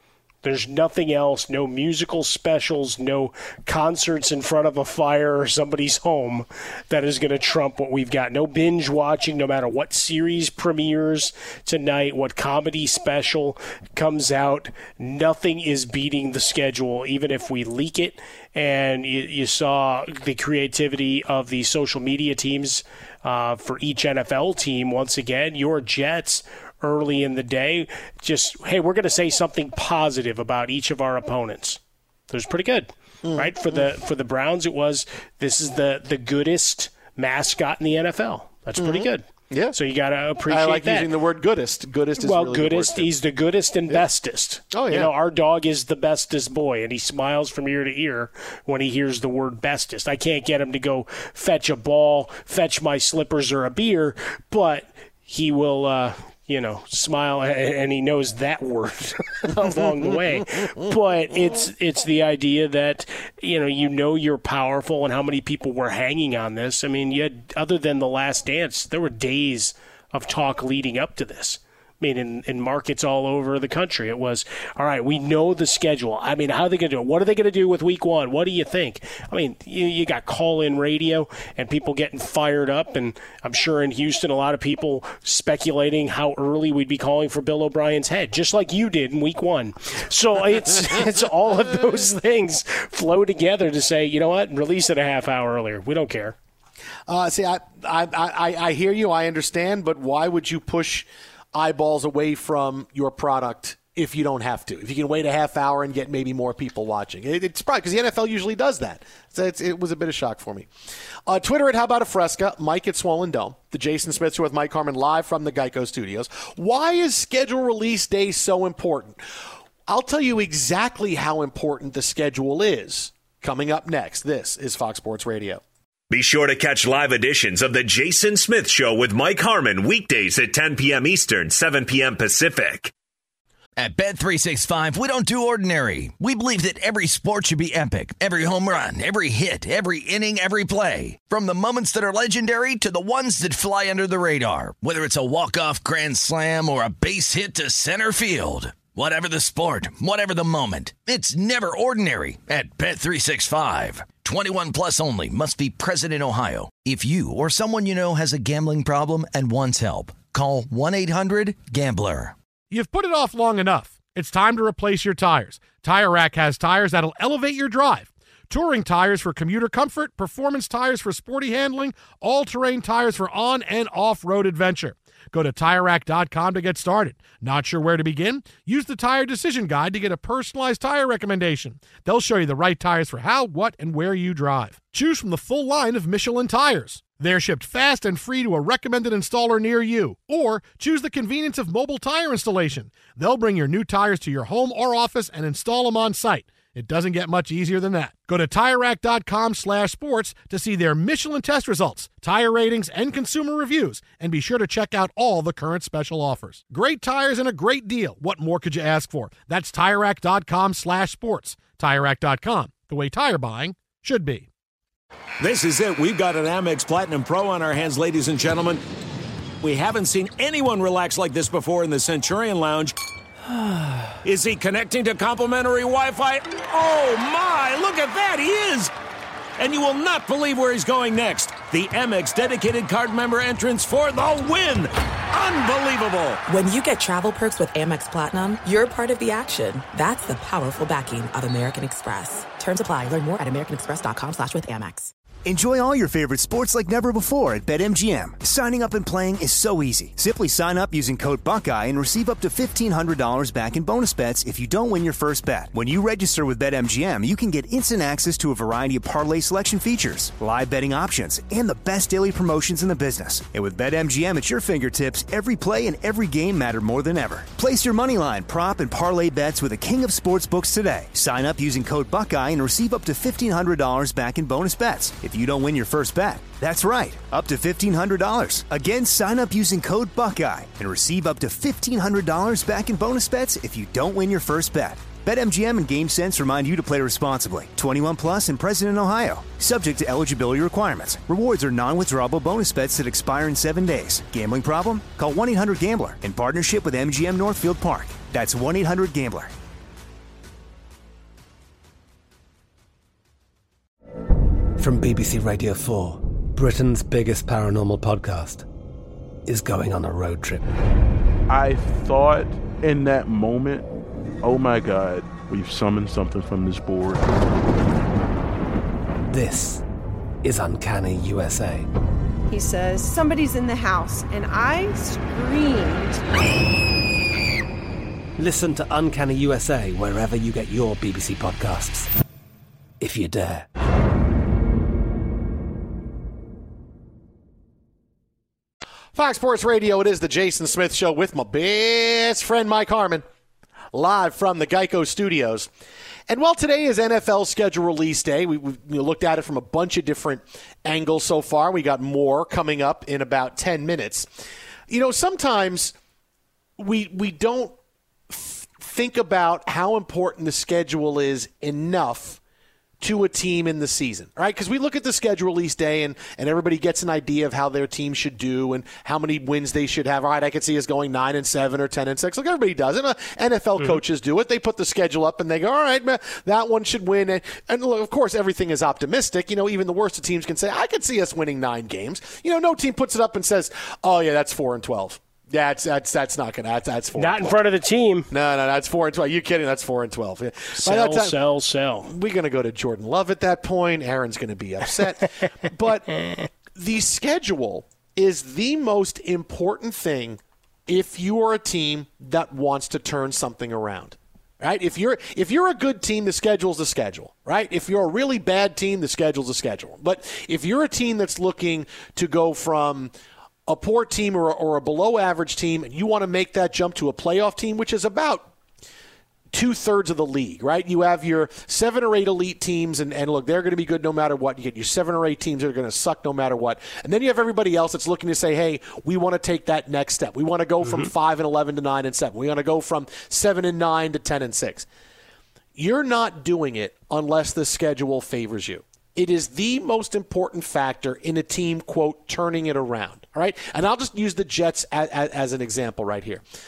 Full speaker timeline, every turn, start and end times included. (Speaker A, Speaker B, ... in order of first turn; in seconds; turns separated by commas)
Speaker A: 0.4-41.1, Speaker B: 33.2-33.9, Speaker B: 38.8-39.8, Speaker B: 40.5-43.1, Speaker A: 42.2-96.3, Speaker B: 44.7-45.1, Speaker B: 97.1-110.7, Speaker B: 111.3-119.2, Speaker B: 119.9-125.6, Speaker C: 126.1-132.9, Speaker D: 133.8-162.3, Speaker E: 162.7-214.5, Speaker F: 215.4-218.8, Speaker F: 219.6-222.9, Speaker F: 224.2-228.9, Speaker F: 229.6-236.4, Speaker G: 236.5-245.1, Speaker H: 245.4-299.5, Speaker I: 304.8-308.7, Speaker I: 309.4-310.6, Speaker J: 311.5-313.9, Speaker J: 314.4-317.2, Speaker I: 319.3-319.8, Speaker I: 320.4-321.9, Speaker K: 322.5-326.2, Speaker I: 328.4-332.1, Speaker I: 333.0-333.7, Speaker B: 339.1-343.2, Speaker B: 343.9-345.7, Speaker B: 346.3-354.3, Speaker B: 354.9-355.9, Speaker B: 356.8-357.8, Speaker B: 358.3-362.4, Speaker B: 363.0-387.5, Speaker A: 387.2-388.3, Speaker B: 388.3-391.4, Speaker A: 390.8-392.1, Speaker B: 392.0-413.1, Speaker B: 413.7-418.5, Speaker B: 419.5-434.9, Speaker B: 435.8-446.4